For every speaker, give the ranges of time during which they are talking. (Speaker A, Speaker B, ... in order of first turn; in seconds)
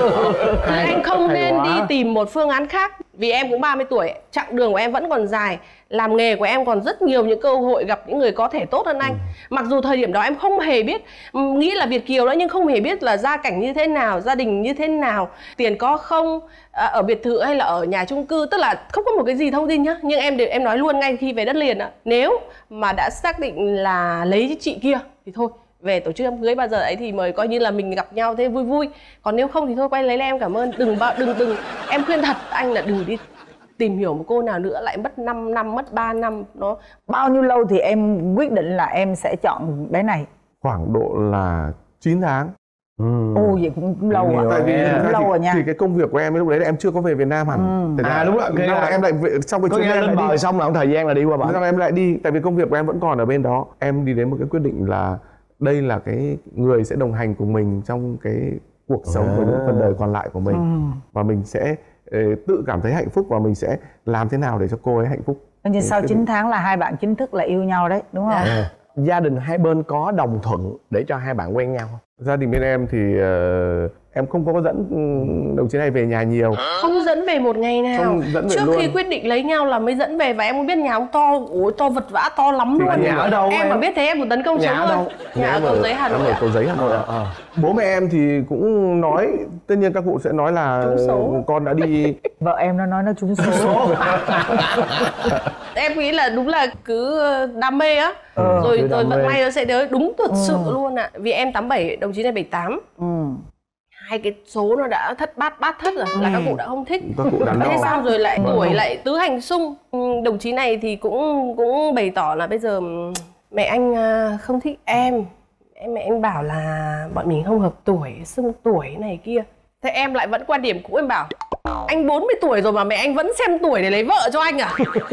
Speaker A: 0.6-1.8, 43.0-43.6, 44.1-45.1, 48.0-49.0, 49.7-51.6, 59.1-59.9, 68.4-72.0, 82.8-83.8, 84.5-87.4, 93.5-94.4, 98.4-99.4
Speaker B: 0.7-33.2, 33.8-36.8, 68.3-68.6, 76.8-86.4, 90.8-91.4, 95.8-102.8, 104.0-121.3, 121.9-124.8
Speaker C: 37.1-40.3, 43.4-45.6, 47.5-48.0, 60.5-61.0, 65.6-68.5, 92.4-94.4, 98.4-98.7, 100.3-100.7, 103.0-103.4, 106.1-106.6, 107.4-108.8
Speaker D: 40.6-42.5, 44.2-50.4, 51.4-66.2, 72.2-76.7, 77.9-79.0, 82.8-83.2, 86.3-92.2, 107.0-108.8